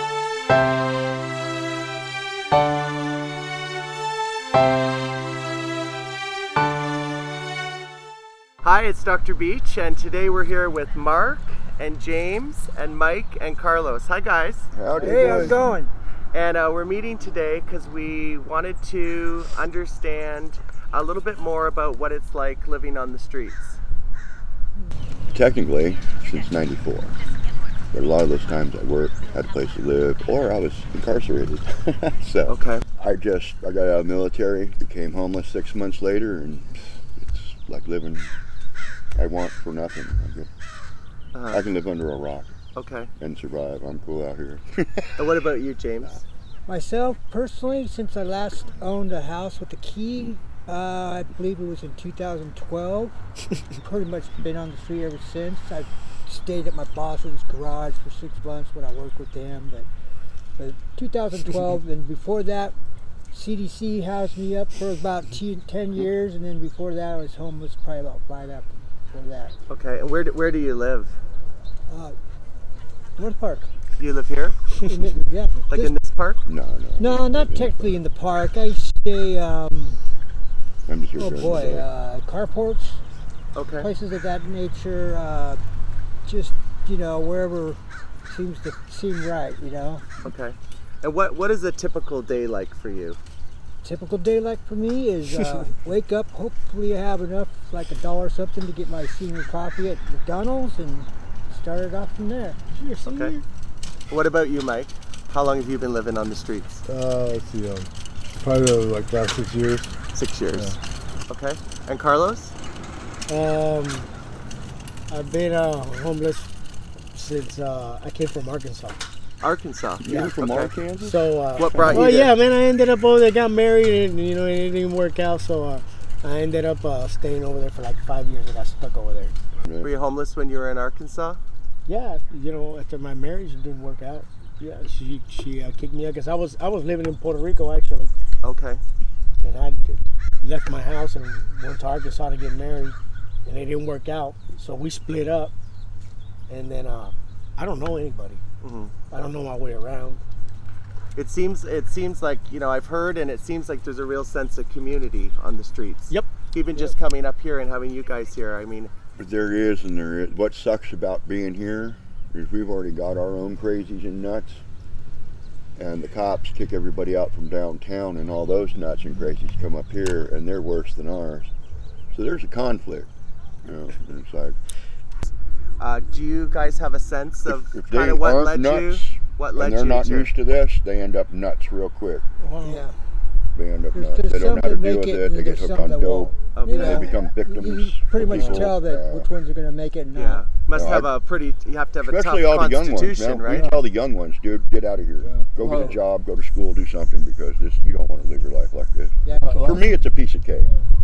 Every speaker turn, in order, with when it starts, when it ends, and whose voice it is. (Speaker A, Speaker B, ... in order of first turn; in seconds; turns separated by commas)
Speaker A: 8.6-14.7, Speaker B: 14.7-15.7, Speaker C: 14.9-15.9, Speaker A: 16.3-23.8, Speaker B: 25.3-27.1, Speaker B: 27.9-38.3, Speaker A: 32.5-32.9, Speaker B: 39.1-40.5, Speaker A: 41.3-41.6, Speaker B: 41.5-42.6, Speaker A: 42.8-43.1, Speaker B: 43.2-45.3, Speaker A: 45.2-46.2, Speaker C: 46.7-53.1, Speaker C: 53.8-59.9, Speaker C: 60.6-62.8, Speaker C: 63.3-69.5, Speaker A: 69.7-71.2, Speaker C: 71.9-72.2, Speaker C: 73.2-73.7, Speaker A: 74.0-74.6, Speaker C: 74.8-75.9, Speaker A: 75.7-76.4, Speaker B: 76.5-78.0, Speaker C: 77.0-80.0, Speaker B: 80.9-81.9, Speaker C: 81.2-83.0, Speaker A: 83.5-83.9, Speaker C: 83.8-85.6, Speaker C: 86.2-90.0, Speaker A: 90.2-93.2, Speaker C: 93.8-102.6, Speaker D: 102.8-103.4, Speaker A: 103.0-103.4, Speaker A: 104.1-106.8, Speaker E: 106.9-109.9, Speaker A: 110.1-110.8, Speaker A: 111.3-112.5, Speaker D: 113.3-114.1, Speaker D: 115.1-116.5, Speaker D: 117.1-119.0, Speaker A: 119.4-120.8, Speaker B: 120.0-122.4, Speaker D: 121.0-129.3, Speaker A: 121.5-122.2, Speaker B: 129.6-129.9, Speaker A: 129.8-131.4, Speaker D: 131.9-138.1, Speaker A: 138.4-138.8, Speaker D: 139.4-145.5, Speaker D: 146.5-148.4, Speaker A: 148.6-148.9, Speaker D: 149.1-150.2, Speaker A: 151.2-158.9, Speaker D: 156.1-156.9, Speaker B: 159.2-164.6, Speaker B: 165.8-171.5, Speaker B: 172.1-173.1, Speaker B: 173.6-174.6, Speaker A: 175.3-180.3, Speaker B: 177.5-182.2, Speaker D: 182.4-182.8, Speaker C: 182.6-182.9, Speaker B: 183.6-189.3, Speaker C: 183.9-190.5, Speaker A: 186.6-187.1, Speaker E: 188.3-188.7, Speaker A: 190.1-193.7, Speaker B: 190.7-191.1, Speaker B: 192.0-200.7, Speaker E: 195.2-195.8, Speaker C: 199.2-199.9, Speaker E: 199.4-199.9, Speaker E: 200.6-200.9